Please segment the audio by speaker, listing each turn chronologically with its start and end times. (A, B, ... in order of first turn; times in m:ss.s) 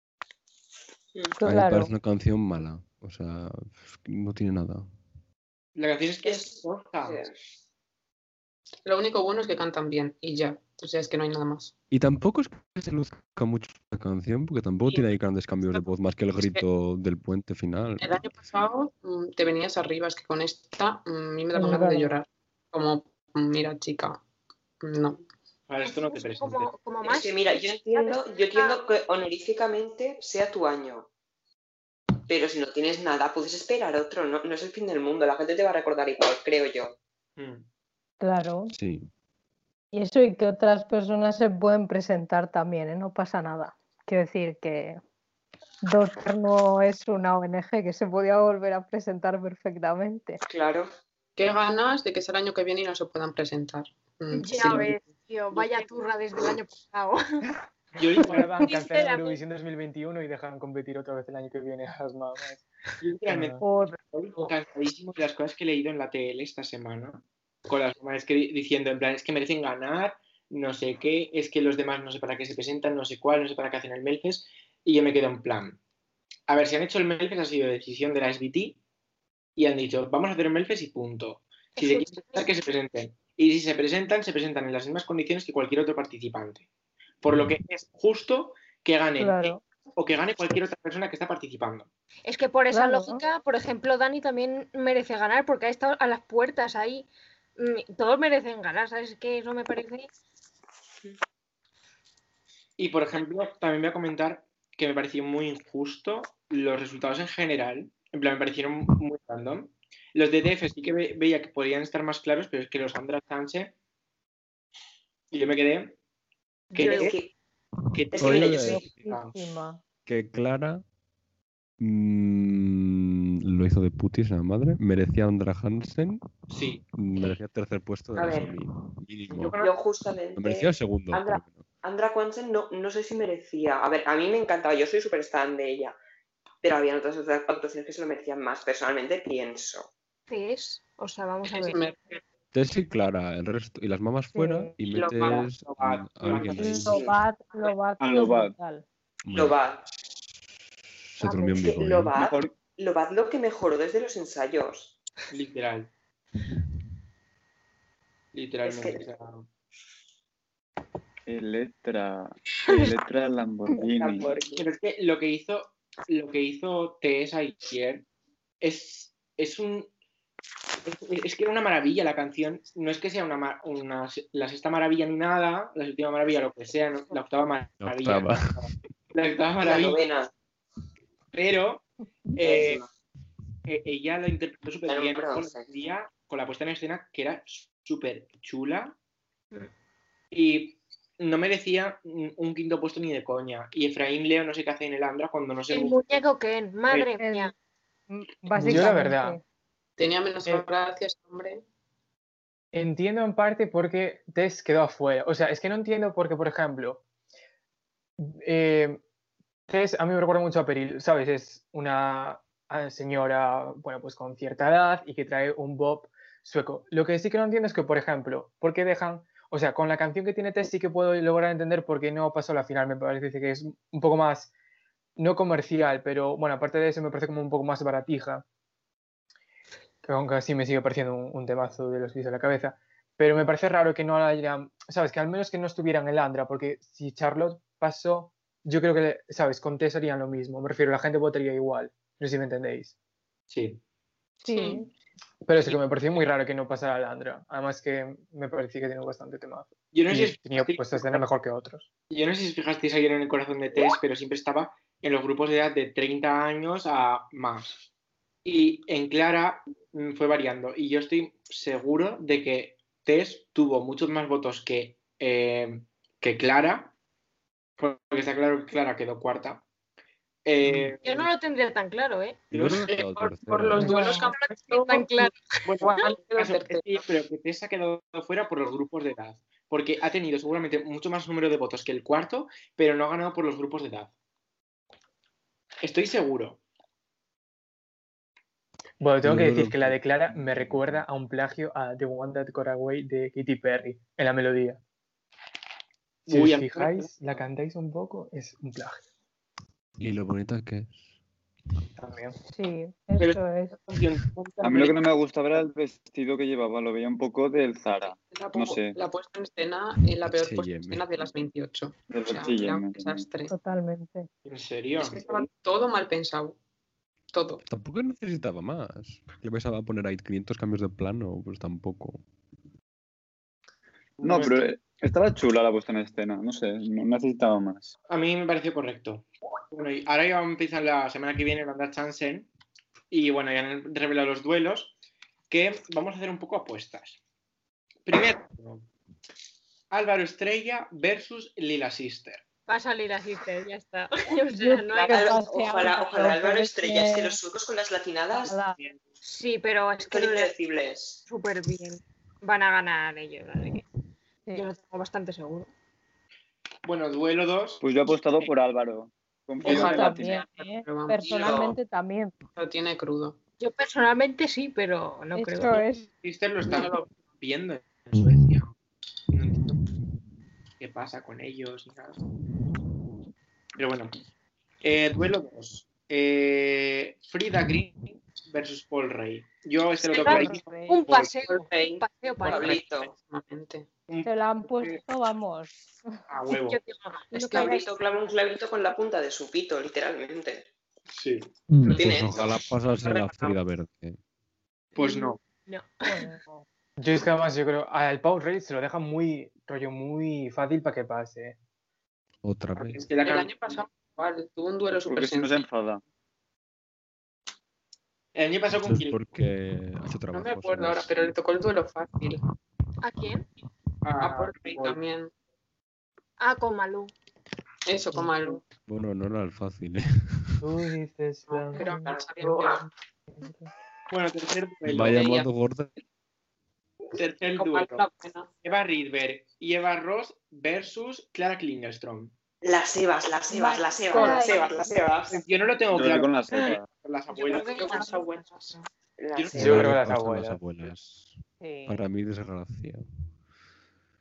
0:01.4-0:01.9 A
0:01.4-0:04.9 B
0:05.8-0:07.2 C
0:06.2-0:07.4 D
0:08.9-0:11.7 E
0:11.9-0:18.1 B
0:15.6-0:16.6 E
0:18.0-0:24.2 E
0:21.5-0:22.2 A
0:24.8-0:25.2 E
0:25.7-0:26.7 C
0:25.9-0:28.8 F
0:27.0-0:31.1 D
0:32.3-0:37.0 D
0:37.4-0:37.7 C
0:38.2-0:38.8 A
0:38.7-0:39.1 B
0:39.9-0:45.0 A
0:45.8-0:50.4 A
0:50.5-0:50.9 D
0:51.4-0:55.0 E
0:54.3-0:57.4 F
0:58.0-0:58.5 C
0:58.2-1:02.6 G
0:58.4-0:59.4 F
1:03.0-1:03.6 C
1:03.3-1:03.6 G
1:03.6-1:04.0 A
1:04.1-1:15.8 C
1:16.5-1:18.8 C
1:19.6-1:26.7 C
1:21.8-1:22.5 F
1:27.2-1:31.9 C
1:29.2-1:29.6 A
1:32.2-1:40.1 F
1:32.7-1:33.2 A
1:42.8-1:53.7 C
1:55.3-1:56.0 C
1:56.7-1:57.2 F
1:56.7-1:57.2 C
1:56.8-1:57.3 D
1:57.9-1:59.4 C
1:58.1-1:58.8 D
1:58.2-1:58.8 B
1:58.6-1:59.8 A
2:00.1-2:00.8 B
2:01.8-2:06.2 B
2:06.5-2:06.8 C
2:07.0-2:09.6 B
2:08.2-2:08.5 D
2:09.3-2:09.8 C
2:09.6-2:16.0 D
2:10.4-2:11.6 B
2:16.6-2:19.9 D
2:20.3-2:22.0 F
2:21.5-2:22.2 E
2:22.5-2:27.1 B
2:24.3-2:24.8 A
2:24.9-2:25.5 D
2:25.0-2:27.1 C
2:26.5-2:28.8 A
2:26.9-2:27.2 D
2:28.0-2:28.5 H
2:29.2-2:29.6 B
2:29.3-2:29.8 D
2:31.1-2:32.2 B
2:31.2-2:35.0 D
2:32.1-2:32.5 H
2:35.3-2:35.9 C
2:38.3-2:39.4 C
2:38.6-2:39.0 D
2:41.3-2:44.4 H
2:43.8-2:44.6 D
2:44.6-2:48.1 C
2:48.6-2:49.9 C
2:50.8-3:00.0 C
2:57.8-2:58.7 B
2:59.6-3:00.3 D
3:01.3-3:02.8 C
3:02.4-3:02.9 D
3:03.6-3:09.0 C
3:04.9-3:05.7 D
3:10.3-3:16.0 C
3:15.7-3:17.5 F
3:17.2-3:17.5 A
3:18.1-3:19.4 A
3:18.5-3:19.4 G
3:20.0-3:21.6 E
3:22.7-3:27.0 G
3:28.2-3:29.0 G
3:29.7-3:44.5 G
3:45.2-3:48.4 G
3:50.0-4:02.9 G
4:03.5-4:03.8 C
4:04.4-4:04.9 A
4:04.4-4:04.8 E
4:05.5-4:11.9 G
4:09.9-4:11.2 C
4:12.1-4:17.9 C
4:18.4-4:26.9 C
4:27.8-4:29.6 C
4:30.4-4:31.3 C
4:30.6-4:30.9 B
4:31.0-4:32.5 F
4:32.5-4:34.2 B
4:32.5-4:32.8 C
4:32.8-4:37.0 E
4:33.9-4:35.6 F
4:35.6-4:44.1 C
4:45.8-4:46.6 C
4:49.0-4:54.8 G
4:49.2-4:51.0 B
4:56.3-4:57.1 C
4:56.3-4:59.0 G
5:00.0-5:01.1 B
5:02.0-5:02.4 G
5:02.5-5:03.8 A
5:03.2-5:05.0 C
5:04.6-5:09.0 H
5:08.1-5:13.5 E
5:10.2-5:11.4 B
5:12.1-5:13.2 H
5:13.5-5:14.3 A
5:14.5-5:15.2 C
5:15.0-5:16.6 E
5:17.3-5:17.6 E
5:17.7-5:22.2 B
5:24.2-5:24.7 C
5:24.2-5:27.9 H
5:28.1-5:32.5 C
5:33.1-5:34.9 C
5:35.5-5:37.2 C
5:38.1-5:38.9 C
5:39.9-5:42.4 C
5:42.7-5:45.3 F
5:44.6-5:47.4 A
5:45.0-5:48.6 D
5:48.4-5:48.8 A
5:49.2-5:50.5 F
5:50.1-5:51.2 D
5:51.3-5:53.8 F
5:54.6-5:55.7 F
5:56.8-5:57.8 C
5:57.8-6:00.4 H
5:59.6-6:01.7 E
5:59.6-6:02.4 A
6:01.3-6:01.7 D
6:02.5-6:03.4 E
6:03.6-6:05.8 F
6:05.4-6:06.1 A
6:06.2-6:08.7 C
6:06.6-6:07.1 E
6:09.3-6:09.8 C
6:10.8-6:12.2 C
6:13.8-6:14.1 C
6:14.8-6:21.4 C
6:20.1-6:21.1 A
6:20.2-6:22.8 F
6:21.5-6:23.9 E
6:22.4-6:23.1 D
6:24.1-6:25.0 C
6:24.2-6:25.8 A
6:26.3-6:26.8 C
6:26.6-6:27.9 F
6:27.3-6:30.7 D
6:27.5-6:27.8 A
6:31.1-6:31.5 C
6:31.7-6:34.2 B
6:31.8-6:33.6 D
6:35.0-6:35.4 C
6:35.0-6:36.3 F
6:36.1-6:36.6 A
6:37.0-6:41.6 G
6:42.4-6:43.1 B
6:42.8-6:43.5 C
6:43.2-6:45.6 E
6:45.0-6:46.0 H
6:48.4-6:49.2 C
6:48.9-6:51.3 B
6:50.3-6:52.4 E
6:53.0-6:53.4 F
6:54.0-6:55.0 C
6:54.2-6:55.3 E
6:56.4-6:57.1 F
6:57.9-6:58.6 E
6:58.8-7:00.7 B
7:00.6-7:02.9 G
7:01.5-7:02.8 E
7:04.1-7:05.4 C
7:04.9-7:06.0 B
7:05.2-7:05.5 E
7:07.2-7:08.1 C
7:07.6-7:08.5 E
7:08.6-7:12.3 C
7:12.6-7:15.4 D
7:13.5-7:15.0 A
7:14.1-7:14.5 E
7:15.3-7:17.8 C
7:15.9-7:16.9 H
7:17.3-7:18.9 F
7:17.5-7:18.8 E
7:19.2-7:19.9 D
7:19.4-7:19.8 C
7:19.5-7:23.0 B
7:19.5-7:20.6 G
7:21.6-7:22.0 A